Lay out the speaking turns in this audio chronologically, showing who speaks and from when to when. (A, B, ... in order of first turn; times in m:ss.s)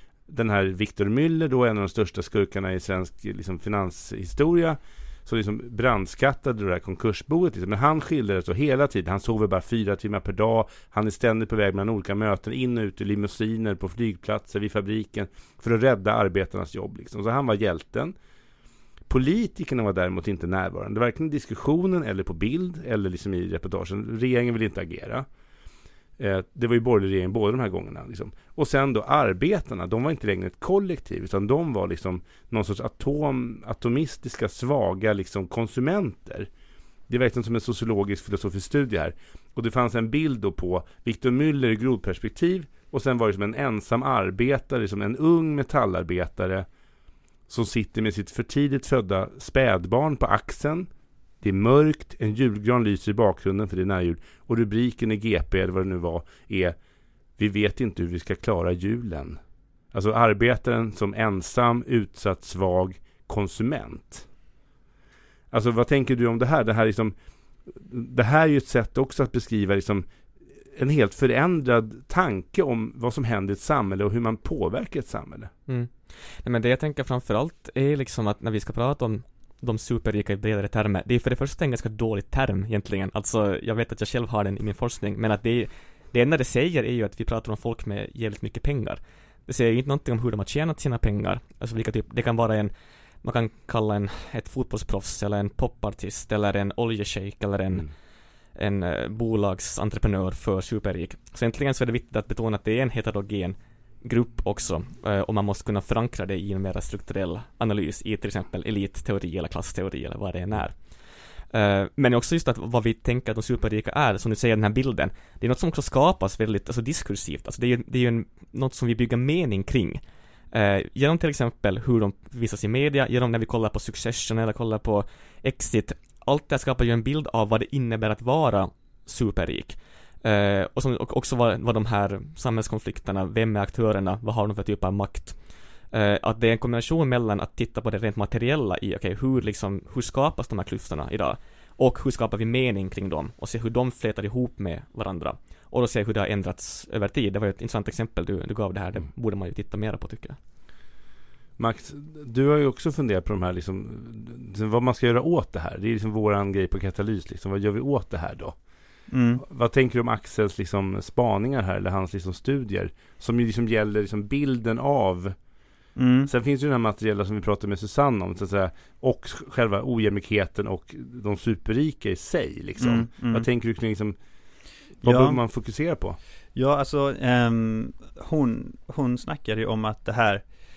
0:00.3-0:18.1 A
0:19.1-0:25.3 A
0:26.2-0:36.5 A
0:37.1-0:46.7 A
0:47.5-0:50.9 A
0:51.4-0:56.8 A
0:57.4-0:59.4 A
0:59.9-1:04.3 A
1:05.5-1:07.1 A
1:07.6-1:10.1 A
1:10.7-1:15.5 A
1:15.7-1:32.7 B
1:33.2-1:37.9 B
1:38.5-2:30.4 B
2:31.6-2:38.6 A
2:39.1-2:39.4 C
2:39.4-2:45.3 A
2:46.0-2:46.3 C
2:46.3-2:54.2 A
2:52.8-2:53.5 C
2:55.0-2:56.2 A
2:55.0-2:55.4 C
2:56.5-3:00.4 C